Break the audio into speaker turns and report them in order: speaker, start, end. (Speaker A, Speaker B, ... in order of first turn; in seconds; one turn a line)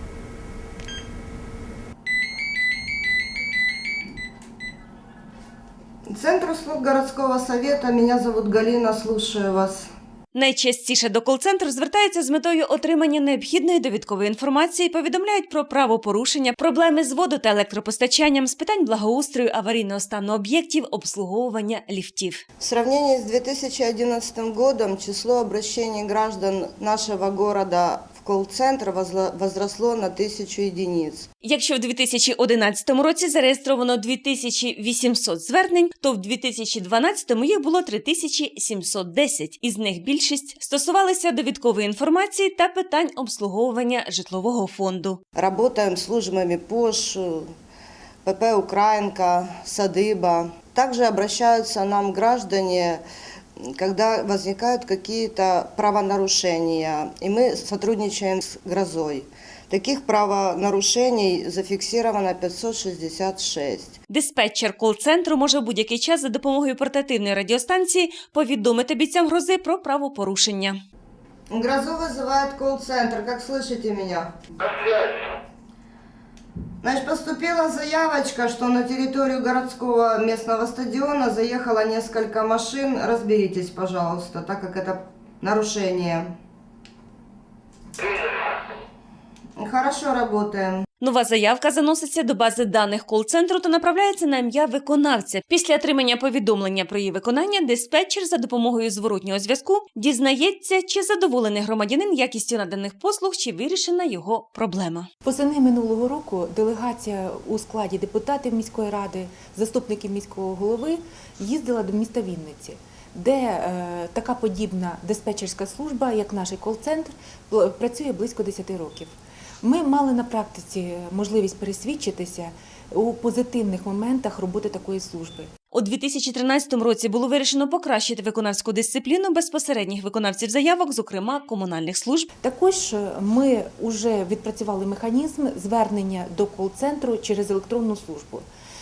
Speaker A: 6.1-9.9
Speaker B: 10.3-22.4
Speaker A: 22.6-31.3
Speaker B: 31.4-45.2
Speaker A: 45.4-47.5
Speaker A: 48.2-53.0
Speaker A: 53.6-64.0
Speaker B: 64.1-70.8
Speaker A: 71.5-74.3
Speaker A: 76.8-86.3
Speaker A: 89.6-90.9
Speaker B: 91.0-105.1
Speaker C: 105.2-125.5
Speaker B: 125.7-132.3
Speaker C: 132.4-138.5